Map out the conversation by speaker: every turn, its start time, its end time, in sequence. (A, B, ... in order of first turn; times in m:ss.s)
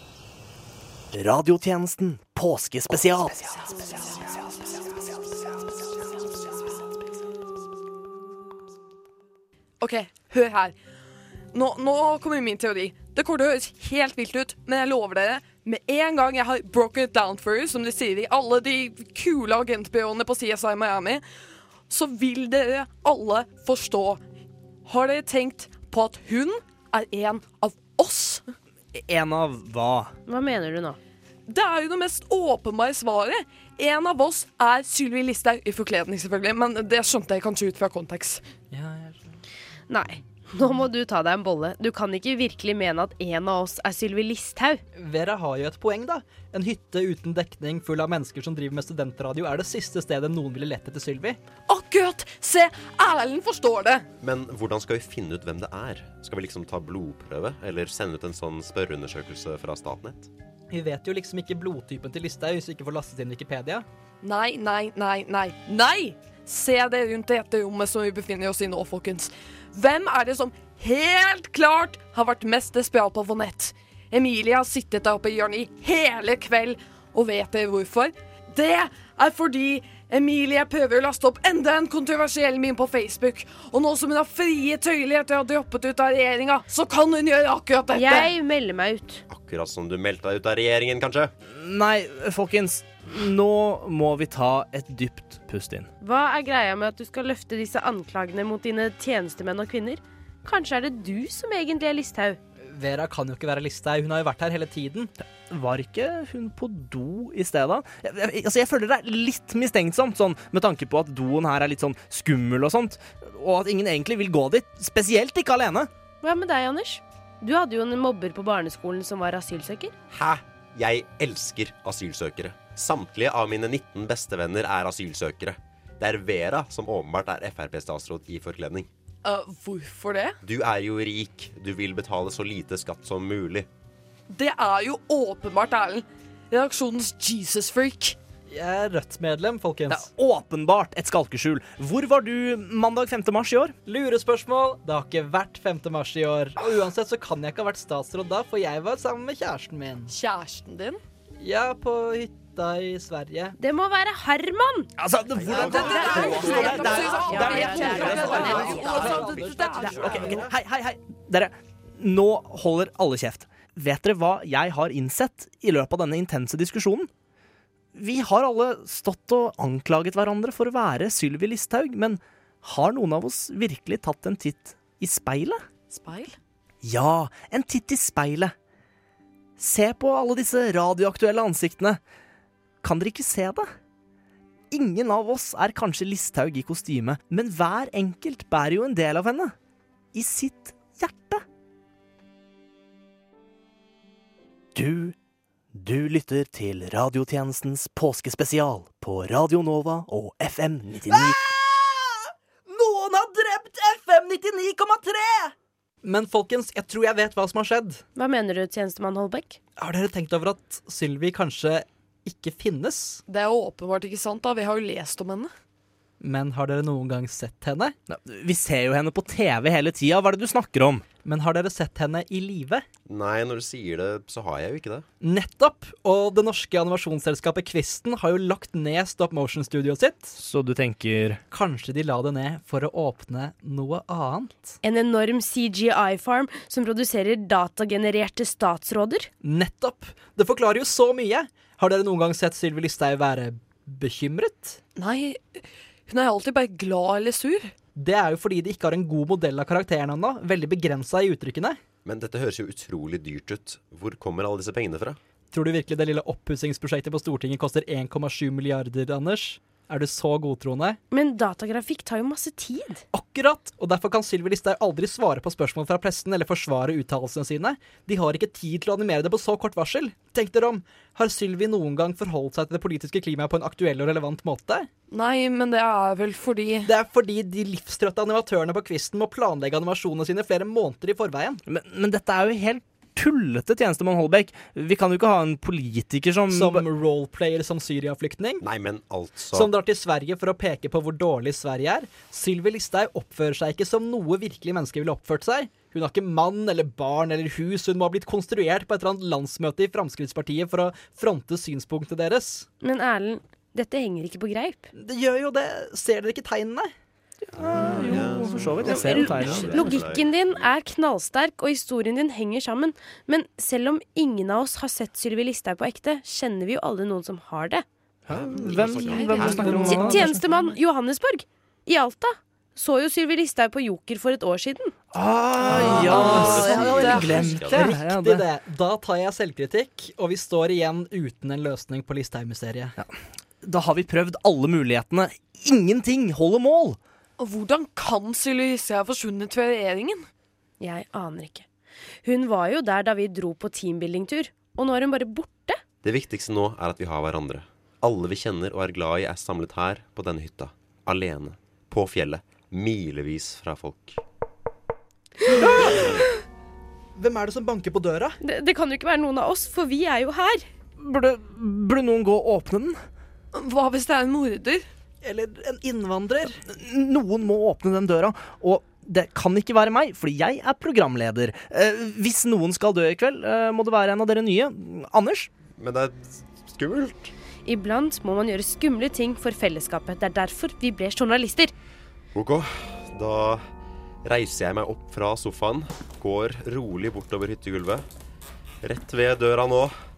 0:01.1-0:04.7 A
0:09.8-0:10.7 B
0:11.5-0:21.2 B
0:21.9-0:24.2 B
0:24.8-0:28.4 B
0:28.9-0:30.1 A
0:30.3-0:31.0 C
0:31.5-0:38.4 B
0:38.7-0:39.3 D
0:39.9-0:44.8 C
0:45.0-0:51.4 D
0:51.7-0:54.0 B
0:54.2-1:00.3 E
1:00.7-1:03.8 D
1:04.2-1:28.3 B
1:27.9-1:29.2 C
1:29.3-1:31.3 E
1:31.5-1:35.9 A
1:36.0-1:42.4 C
1:42.7-1:45.1 D
1:45.3-1:55.9 A
1:56.2-1:59.9 C
2:00.1-2:08.9 E
2:09.2-2:10.4 B
2:10.4-2:13.7 E
2:14.3-2:18.2 B
2:18.5-2:20.1 D
2:19.9-2:23.7 A
2:23.8-2:30.1 D
2:30.1-2:31.0 B
2:31.4-2:33.6 D
2:33.6-2:34.9 C
2:35.0-2:39.1 A
2:35.4-2:35.8 E
2:35.6-2:40.2 B
2:35.7-2:40.5 D
2:36.1-2:38.8 C
2:39.8-2:47.1 A
2:47.9-2:55.6 A
2:55.9-2:56.4 B
2:56.8-2:58.5 A
2:59.6-3:02.0 A
3:02.8-3:03.7 A
3:04.7-3:09.5 A
3:10.1-3:11.4 A
3:14.7-3:15.2 A
3:15.7-3:21.4 A
3:21.1-3:28.0 D
3:28.1-3:29.6 C
3:29.8-3:33.2 D
3:33.3-3:35.5 B
3:36.2-3:37.9 D
3:38.1-3:41.0 A
3:41.2-3:42.8 D
3:43.1-3:45.0 E
3:45.2-3:50.3 D
3:50.4-3:51.4 A
3:51.5-3:54.8 D
3:54.8-3:59.3 C
3:59.4-4:04.8 D
4:05.0-4:07.7 B
4:08.0-4:11.8 D
4:12.0-4:15.2 E
4:15.5-4:21.0 D
4:21.1-4:23.0 C
4:23.1-4:34.9 D
4:35.1-4:36.9 B
4:36.8-4:41.6 D
4:41.7-4:46.8 A
4:46.5-4:48.6 D
4:48.6-4:49.7 E
4:49.5-5:02.6 D
5:02.8-5:04.9 C
5:04.9-5:06.9 D
5:07.4-5:09.9 A
5:07.6-5:10.7 E
5:08.8-5:17.8 C
5:18.3-5:20.4 A
5:18.3-5:20.2 E
5:19.1-5:24.9 C
5:19.6-5:20.2 D
5:25.1-5:28.4 A
5:25.7-5:32.9 D
5:25.7-5:27.5 C
5:25.9-5:28.0 E
5:33.0-5:37.0 A
5:37.4-5:40.3 B
5:40.8-5:41.6 C
5:42.2-5:45.8 C
5:46.0-5:54.2 E
5:55.5-5:56.3 D
5:57.2-5:58.4 D
5:58.4-6:00.6 C
6:01.0-6:03.0 A
6:03.5-6:04.8 B
6:05.2-6:06.6 D
6:06.6-6:15.5 A
6:15.8-6:17.3 E
6:17.6-6:21.7 C
6:22.3-6:23.6 E
6:24.2-6:28.0 E
6:28.8-6:29.9 E